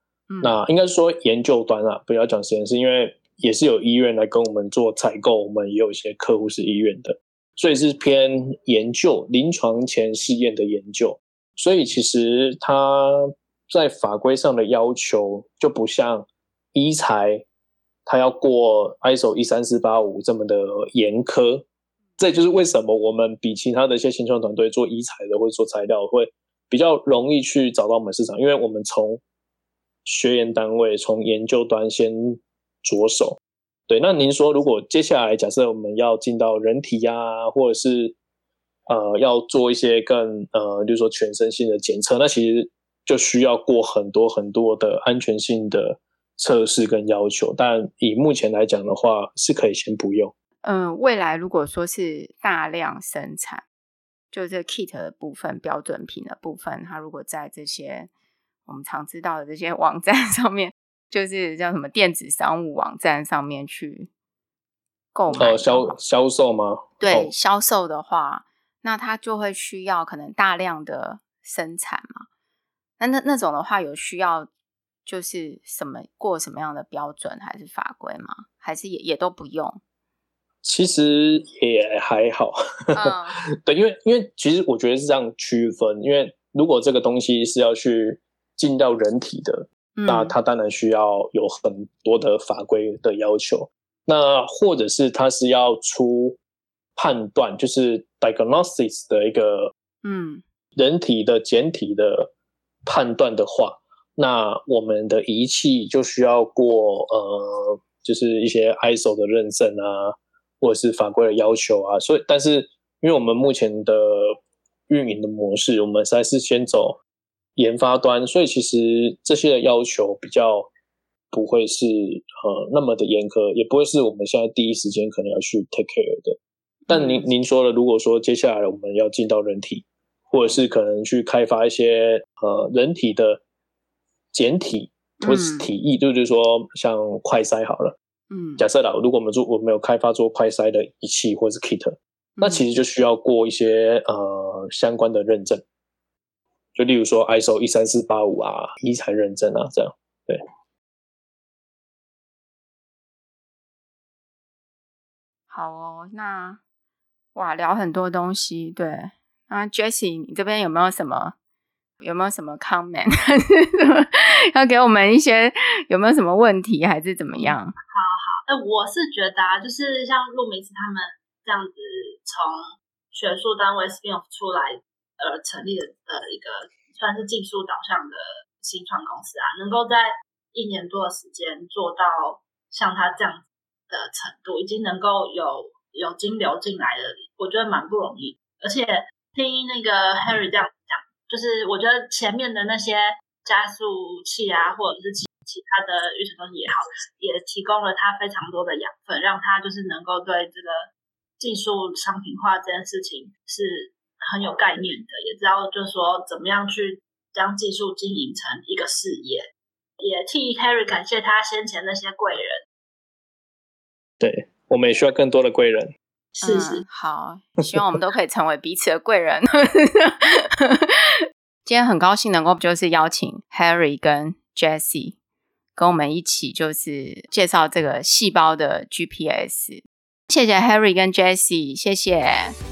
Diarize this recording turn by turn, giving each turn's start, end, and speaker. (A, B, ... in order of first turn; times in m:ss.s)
0:00.3-0:00.6 A
0:00.4-0:17.4 B
0:18.0-0:21.6 B
0:22.2-0:29.2 B
0:30.0-0:38.2 B
0:38.9-0:50.3 B
0:50.6-0:53.6 A
0:54.3-0:58.1 A
0:58.6-1:04.1 A
1:05.1-1:05.9 A
1:05.3-1:07.3 B
1:07.0-1:12.2 A
1:13.0-1:14.5 A
1:15.0-1:19.8 A
1:20.6-1:36.4 B
1:22.9-1:23.4 A
1:30.0-1:30.4 A
1:37.0-1:39.7 B
1:40.0-1:40.4 A
1:40.8-1:42.3 B
1:42.8-1:54.4 B
1:54.9-1:57.0 B
1:57.6-2:00.7 B
2:01.3-2:06.4 B
2:06.9-2:07.3 A
2:06.9-2:13.4 B
2:14.3-2:17.9 B
2:15.2-2:15.7 A
2:18.3-2:18.6 A
2:18.6-2:25.6 B
2:22.4-2:22.6 A
2:26.8-2:30.4 B
2:35.5-2:36.6 A
2:37.3-2:41.3 A
2:42.0-2:47.7 A
2:47.4-3:20.9 C
3:21.4-3:29.4 C
3:30.0-3:32.6 C
3:34.2-3:35.9 B
3:36.4-3:36.8 C
3:36.4-3:41.1 A
3:41.6-3:45.2 A
3:45.7-3:52.6 A